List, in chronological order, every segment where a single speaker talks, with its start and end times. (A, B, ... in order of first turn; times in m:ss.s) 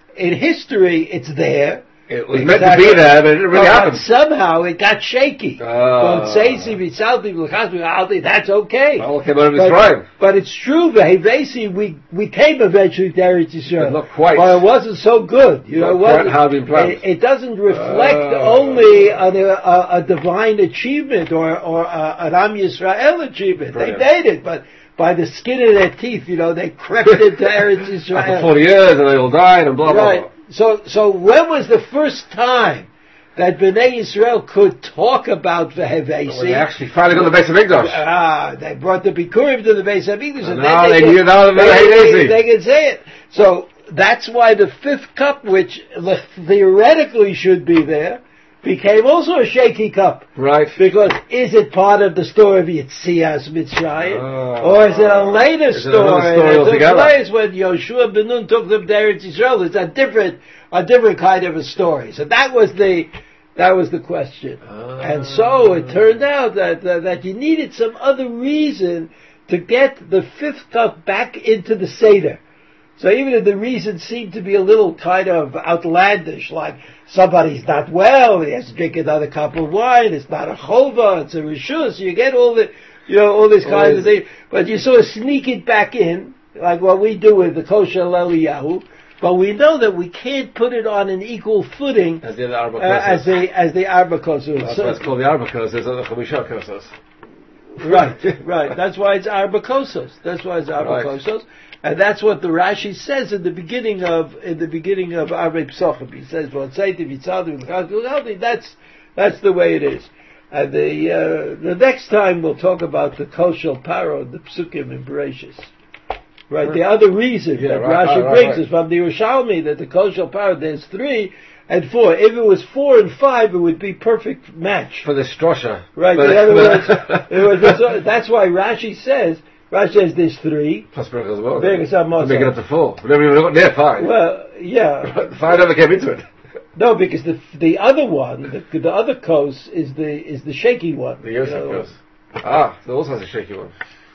0:00.2-0:28.6 A
0:02.1-0:04.0 B
0:05.6-0:06.8 B
0:09.0-0:10.1 B
0:13.8-0:14.6 B
0:15.8-0:17.0 B
0:17.7-0:19.2 B
0:23.7-0:24.0 B
0:27.1-0:27.5 B
0:28.1-0:30.3 B
0:29.8-1:12.4 A
0:36.3-0:38.0 B
0:40.4-0:42.4 B
0:50.4-0:50.8 B
0:54.0-0:57.2 B
1:04.6-1:06.0 B
1:13.0-1:32.3 A
1:23.6-1:24.1 B
1:32.2-1:33.3 B
1:32.8-1:35.0 A
1:34.6-1:36.9 B
1:37.8-1:55.7 A
1:37.8-1:38.3 B
1:40.8-1:41.2 B
1:56.5-2:05.1 A
1:57.6-1:58.6 B
2:05.0-2:07.8 B
2:06.0-2:10.9 A
2:10.9-2:14.1 B
2:11.6-2:12.6 A
2:14.0-2:15.4 A
2:15.0-2:16.2 B
2:16.8-2:21.9 A
2:21.2-2:23.7 B